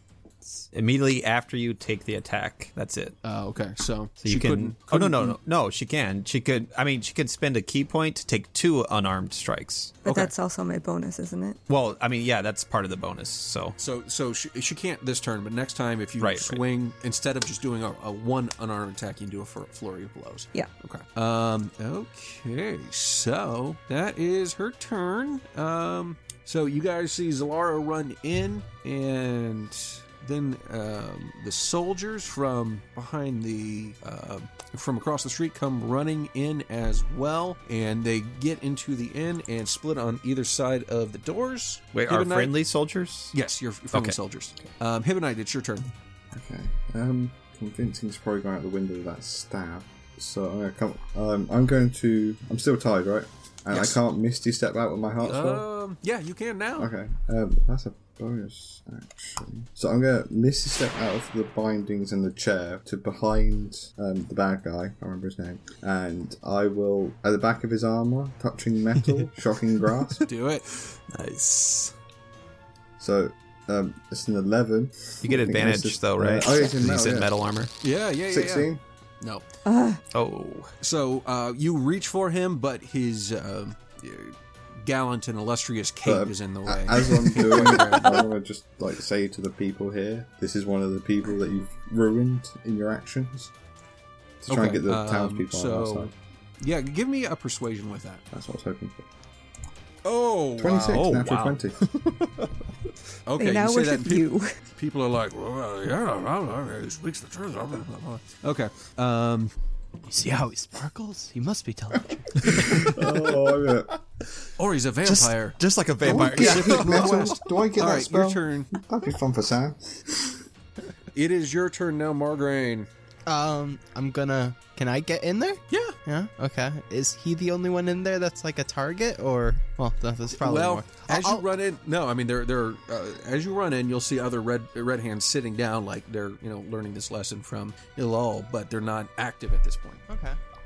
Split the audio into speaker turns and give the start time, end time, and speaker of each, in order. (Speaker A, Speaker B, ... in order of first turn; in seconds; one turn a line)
Speaker A: 0.5-3.1
Speaker B: 3.2-5.4
Speaker A: 4.2-10.3
Speaker C: 10.0-11.6
Speaker A: 11.7-13.8
Speaker B: 13.8-42.5
Speaker A: 16.2-16.6
Speaker A: 41.9-43.3
Speaker B: 43.3-45.9
Speaker D: 46.3-55.6
Speaker B: 53.7-54.0
Speaker B: 55.2-56.9
Speaker D: 56.8-70.2
Speaker B: 70.2-70.7
Speaker A: 71.1-71.9
Speaker D: 73.0-77.3
Speaker A: 75.2-77.7
Speaker B: 77.8-78.7
Speaker D: 78.3-78.8
Speaker C: 79.6-80.0
Speaker A: 80.1-80.7
Speaker B: 80.8-88.2
Speaker D: 86.0-93.5
Speaker D: 94.4-96.1
Speaker B: 94.5-98.2
Speaker D: 98.3-99.0
Speaker B: 100.0-101.6
Speaker D: 100.6-101.8
Speaker A: 102.0-102.3
Speaker B: 103.2-109.5
Speaker C: 103.4-104.5
Speaker E: 110.0-112.9
Speaker A: 112.5-113.1
Speaker D: 112.6-113.9
Speaker B: 114.6-118.7
Speaker A: 115.0-117.3
Speaker D: 116.0-120.4
Speaker B: 121.1-122.9
Speaker E: 123.3-131.4
Speaker B: 125.7-126.0
Speaker B: 130.3-140.0
Speaker E: 140.1-140.4